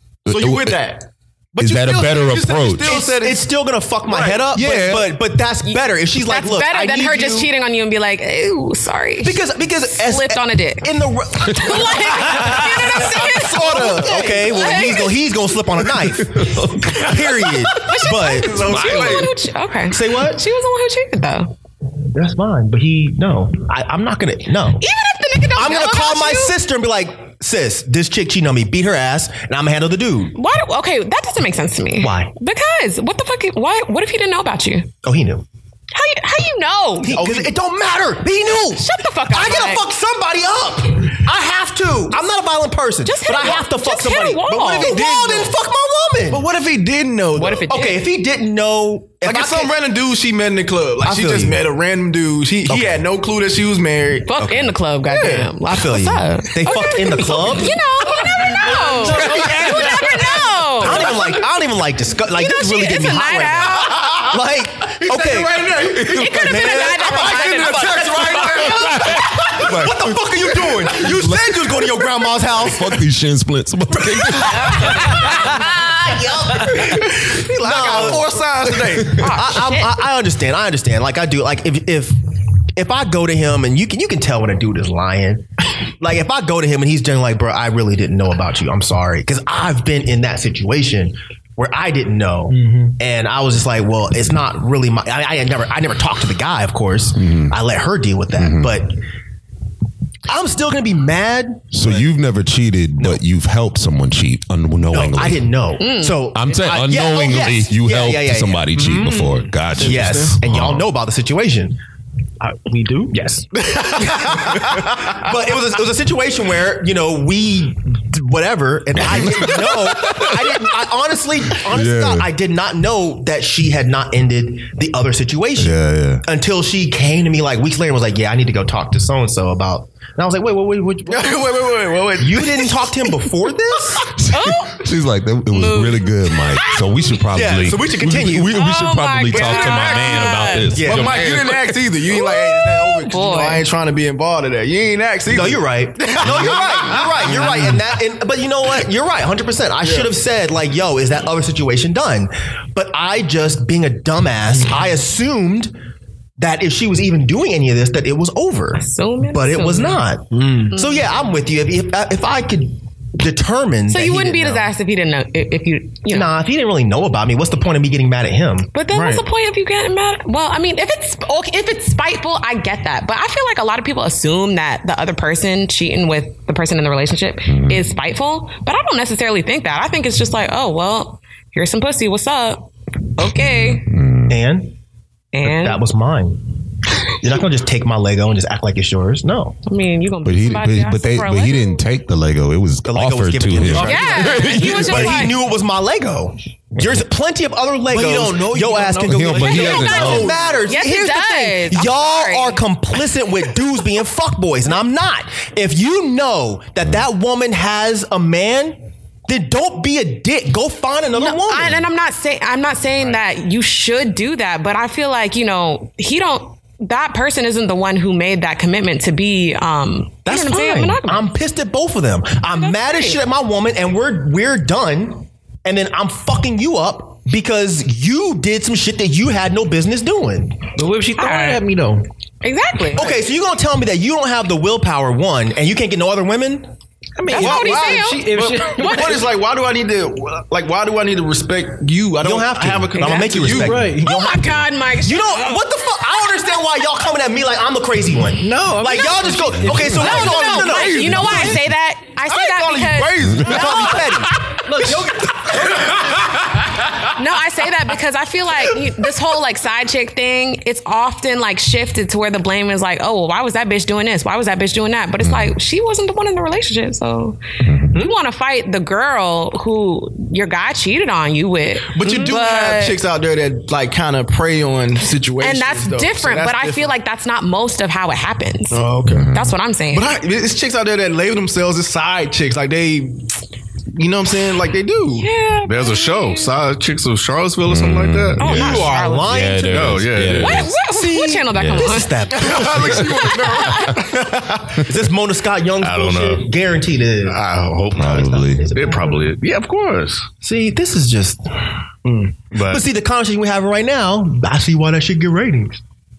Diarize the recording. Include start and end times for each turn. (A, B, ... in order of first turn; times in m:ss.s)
0:00.2-0:00.8 A
0:00.3-0:03.5 B
0:01.6-0:03.0 A
0:02.9-0:07.5 C
0:04.0-0:04.5 B
0:04.5-0:05.2 A
0:05.6-0:15.2 D
0:09.2-0:19.3 C
0:12.6-0:14.4 B
0:16.0-0:17.0 A
0:17.8-0:21.5 D
0:18.5-0:19.1 B
0:18.7-0:19.3 A
0:19.9-0:20.4 C
0:22.1-0:24.8 C
0:24.8-0:26.5 D
0:25.6-0:30.3 C
0:30.3-0:34.9 D
0:32.0-0:32.3 C
0:35.0-0:35.4 C
0:35.9-0:37.2 D
0:37.1-0:37.5 B
0:37.1-0:46.4 C
0:38.5-0:39.8 D
0:43.0-0:45.0 D
0:44.6-0:45.5 B
0:46.3-0:47.7 B
0:47.3-0:48.0 D
0:47.7-0:49.7 C
0:49.2-0:54.3 B
0:51.0-0:51.6 C
0:52.7-0:53.0 C
0:54.2-1:01.1 D
0:54.4-0:54.7 C
0:55.0-0:55.5 B
0:55.6-0:57.8 C
0:58.1-1:01.4 B
0:58.4-1:01.1 E
1:00.8-1:13.0 C
1:02.3-1:04.1 D
1:05.0-1:09.4 B
1:06.0-1:08.0 D
1:08.4-1:15.1 A
1:14.1-1:18.4 C
1:14.8-1:16.3 D
1:16.7-1:19.3 B
1:18.7-1:19.1 A
1:19.1-1:20.0 D
1:19.1-1:22.2 C
1:22.8-1:39.0 C
1:37.2-1:37.5 A
1:38.4-1:38.7 A
1:40.3-1:42.1 C
1:41.7-1:45.5 A
1:44.9-1:49.1 C
1:45.8-1:46.2 D
1:46.3-1:50.9 A
1:48.8-1:50.4 B
1:49.8-1:51.8 C
1:52.4-2:11.5 C
1:53.6-1:54.4 B
1:59.0-2:00.4 A
2:01.6-2:02.3 A
2:05.6-2:06.2 A
2:11.0-2:12.9 B
2:12.2-2:14.0 C
2:14.0-2:21.8 A
2:14.3-2:14.8 D
2:15.5-2:17.1 D
2:17.3-2:18.6 C
2:18.5-2:20.8 D
2:19.3-2:27.8 B
2:20.8-2:21.2 C
2:22.1-2:23.6 D
2:25.3-2:35.7 C
2:29.8-2:30.1 B
2:36.4-2:44.7 C
2:38.8-2:40.0 D
2:40.3-2:40.7 B
2:40.7-2:41.1 D
2:43.9-2:46.3 D
2:46.1-2:48.7 C
2:48.7-3:03.8 D
2:48.9-2:49.2 B
2:57.5-2:57.8 A
3:03.5-3:04.4 A
3:04.3-3:04.8 C
3:05.3-3:05.8 D
3:05.4-3:06.6 C
3:07.1-3:09.6 C
3:09.6-3:11.8 D
3:10.2-3:15.3 A
3:12.8-3:31.8 C
3:13.6-3:14.7 B
3:13.8-3:15.4 D
3:17.9-3:19.1 E
3:17.9-3:20.5 B
3:19.1-3:20.3 A
3:19.4-3:22.6 D
3:31.1-3:41.3 D
3:40.2-3:50.7 C
3:42.5-3:43.2 D
3:50.7-3:52.0 E
3:51.2-3:51.6 D
3:52.4-3:53.0 D
3:52.9-3:56.7 C
3:57.2-3:59.2 E
3:57.3-3:59.2 D
3:57.3-4:04.0 B
4:02.2-4:11.6 C
4:03.0-4:03.3 D
4:03.5-4:04.1 E
4:04.0-4:05.6 D
4:08.4-4:09.7 E
4:09.6-4:09.9 A
4:09.7-4:11.6 B
4:09.9-4:14.4 D
4:12.2-4:14.2 B
4:13.4-4:14.4 C
4:14.6-4:15.8 E
4:14.9-4:16.0 B
4:17.0-4:33.0 D
4:25.2-4:25.5 A
4:27.7-4:27.9 A
4:31.9-4:37.0 B
4:35.4-4:40.1 D
4:38.7-4:39.3 B
4:39.1-4:39.5 A
4:39.9-4:43.3 B
4:43.9-4:45.3 B
4:45.2-4:46.5 D
4:45.6-4:48.4 F
4:47.7-4:50.8 A
4:48.4-4:49.5 D
4:48.4-4:53.6 C
4:49.7-4:50.6 F
4:50.3-4:54.0 D
4:51.5-4:52.0 A
4:52.3-4:53.8 B
4:53.2-4:53.9 A
4:54.2-4:57.4 C
4:55.8-4:56.5 F
4:57.2-5:00.3 F
4:58.0-4:58.7 A
4:58.0-4:59.3 C
5:00.4-5:01.4 C
5:02.0-5:02.4 B
5:02.5-5:02.8 F
5:02.6-5:05.8 C